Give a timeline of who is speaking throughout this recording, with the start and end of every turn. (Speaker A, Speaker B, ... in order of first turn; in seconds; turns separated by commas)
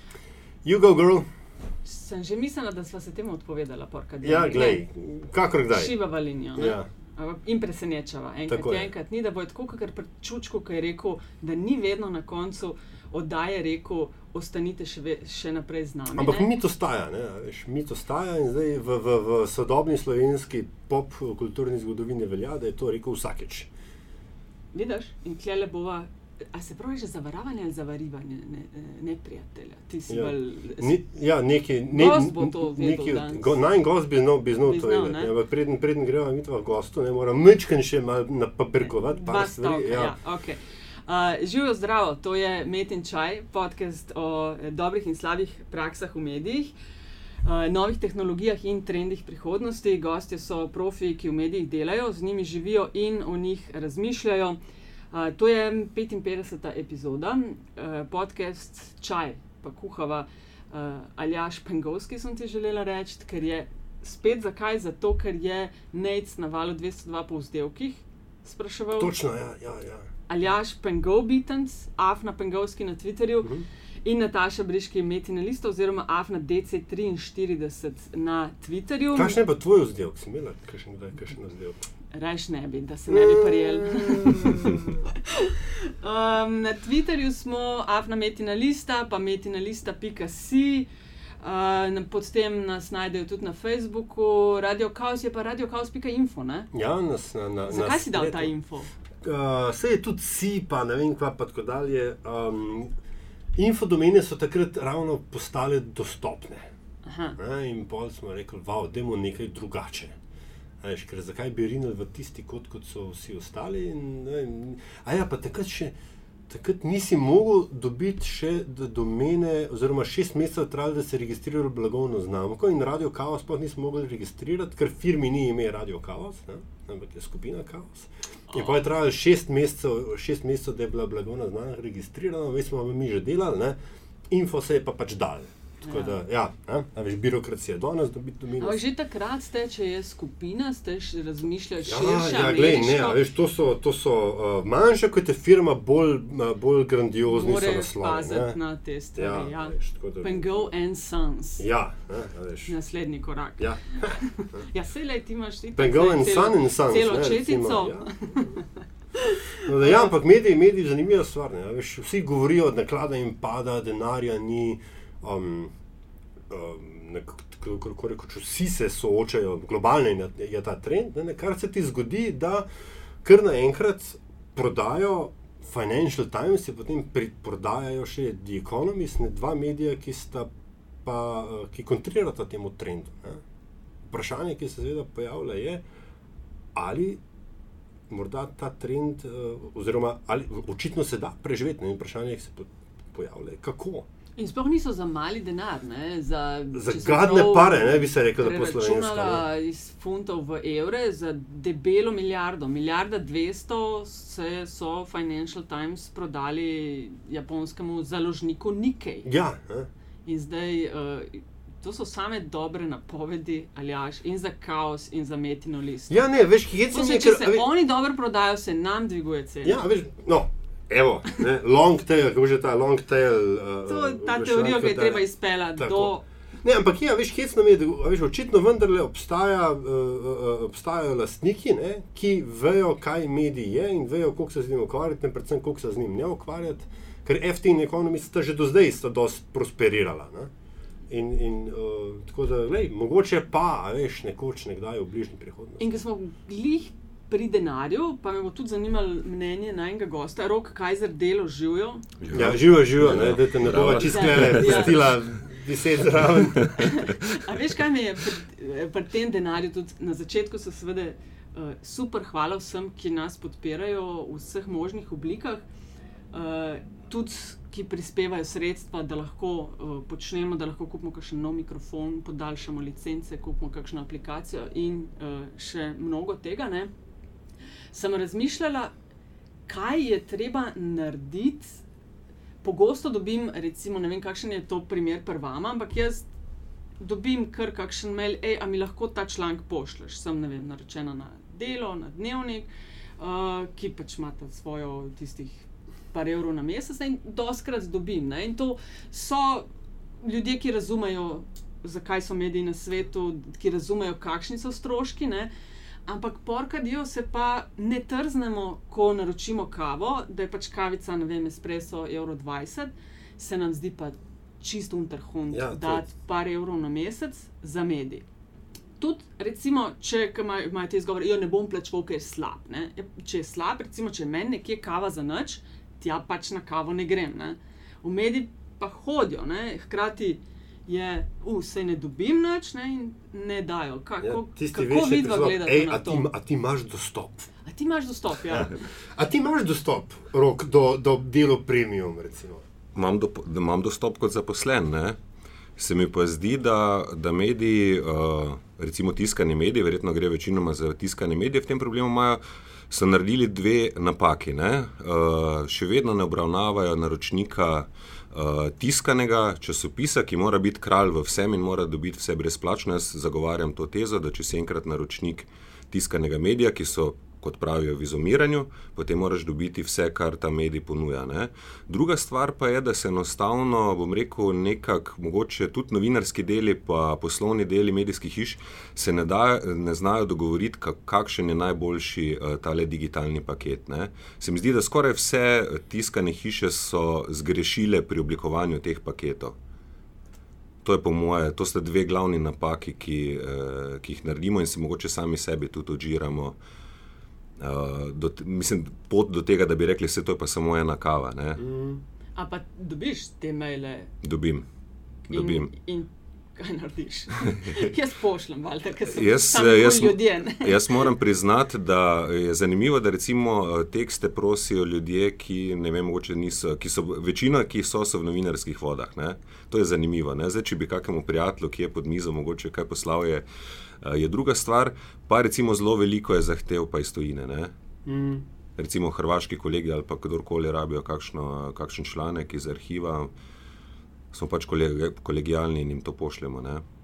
Speaker A: 0.6-1.3, Speaker B: 1.8-4.8, Speaker A: 4.2-5.9, Speaker B: 5.7-16.5, Speaker A: 6.5-6.9, Speaker A: 8.5-8.9, Speaker A: 16.1-23.7, Speaker B: 24.7-31.0, Speaker A: 30.1-40.2, Speaker B: 31.9-33.5, Speaker B: 34.6-35.3, Speaker B: 38.8-46.7, Speaker B: 47.4-54.6, Speaker B: 55.1-69.1, Speaker A: 69.0-70.1, Speaker B: 70.3-73.5, Speaker B: 74.0-79.4, Speaker A: 79.1-81.8, Speaker B: 82.1-90.9, Speaker A: 83.1-84.9, Speaker B: 91.4-96.7, Speaker A: 96.7-98.5, Speaker B: 97.7-98.9, Speaker A: 99.2-102.9, Speaker A: 103.5-106.7, Speaker B: 107.0-107.4, Speaker A: 107.4-110.2, Speaker A: 110.8-115.9, Speaker A: 116.5-133.8, Speaker A: 134.3-138.8, Speaker B: 135.8-136.2, Speaker B: 138.6-143.2, Speaker A: 141.8-148.6, Speaker B: 147.3-151.7, Speaker A: 149.2-150.7, Speaker A: 151.6-152.7, Speaker B: 152.7-158.6, Speaker A: 153.6-154.2, Speaker A: 155.8-158.5, Speaker B: 159.1-160.1, Speaker A: 159.6-165.7, Speaker A: 166.5-172.7, Speaker A: 173.2-180.5, Speaker A: 181.0-183.4, Speaker A: 184.1-185.8, Speaker A: 186.7-187.2, Speaker A: 188.1-194.1, Speaker B: 194.4-209.3, Speaker A: 196.7-199.4, Speaker A: 209.2-209.9, Speaker B: 210.2-216.2, Speaker A: 216.1-217.7, Speaker B: 216.9-219.9, Speaker A: 219.6-240.5, Speaker B: 223.8-226.2, Speaker A: 241.1-245.9, Speaker B: 245.8-252.0, Speaker C: 252.2-255.1, Speaker A: 252.3-256.9, Speaker B: 254.0-255.1, Speaker C: 256.5-257.5, Speaker B: 256.8-265.6, Speaker B: 266.3-276.9, Speaker B: 277.9-278.9, Speaker B: 279.7-281.8, Speaker B: 282.6-286.3, Speaker B: 287.0-299.7, Speaker B: 300.2-305.5, Speaker B: 306.1-318.2, Speaker A: 315.5-316.0, Speaker B: 319.0-336.3, Speaker A: 334.2-337.5, Speaker B: 337.6-338.9, Speaker A: 338.5-342.6, Speaker C: 342.9-345.2, Speaker C: 345.8-389.6, Speaker C: 390.8-396.6, Speaker C: 397.6-401.6, Speaker A: 401.6-402.0, Speaker B: 402.3-404.1, Speaker C: 404.2-404.6, Speaker C: 405.3-405.7, Speaker B: 405.3-411.1, Speaker C: 409.1-423.4, Speaker C: 424.0-427.7, Speaker A: 428.1-428.4, Speaker C: 428.8-433.3, Speaker C: 434.3-436.8